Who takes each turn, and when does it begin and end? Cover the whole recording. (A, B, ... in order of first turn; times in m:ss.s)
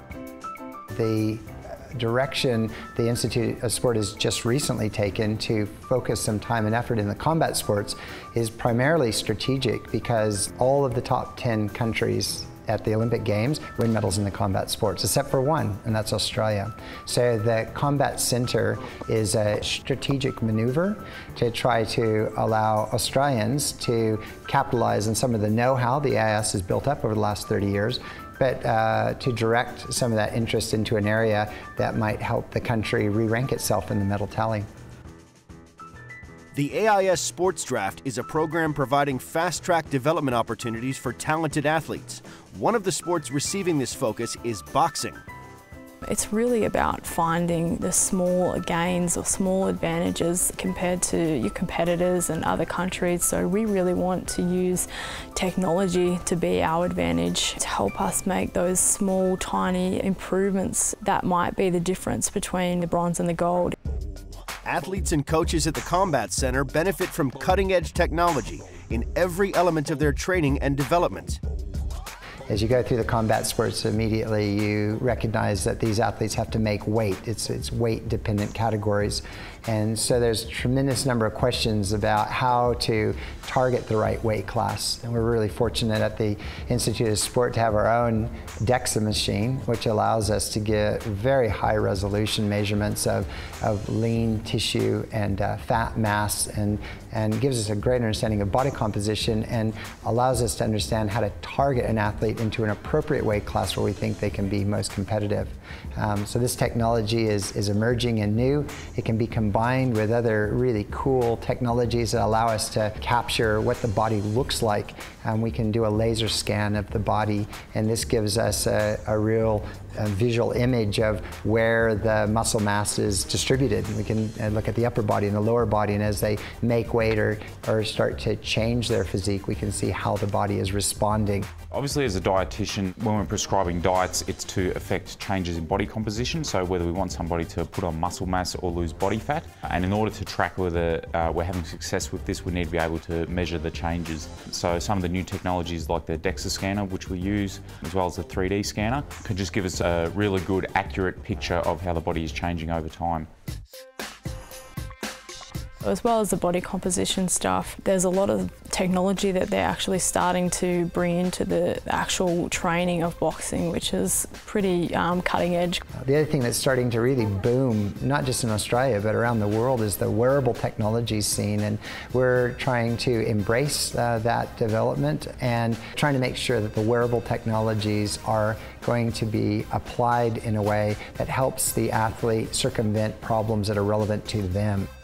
0:00.9-0:34.7 A
0:36.5-0:45.2 B
0:46.1-1:03.8 C
1:04.6-1:11.4 B
1:12.5-2:11.5 A
2:11.7-2:33.3 D
2:35.8-2:45.8 C
2:46.0-3:04.9 A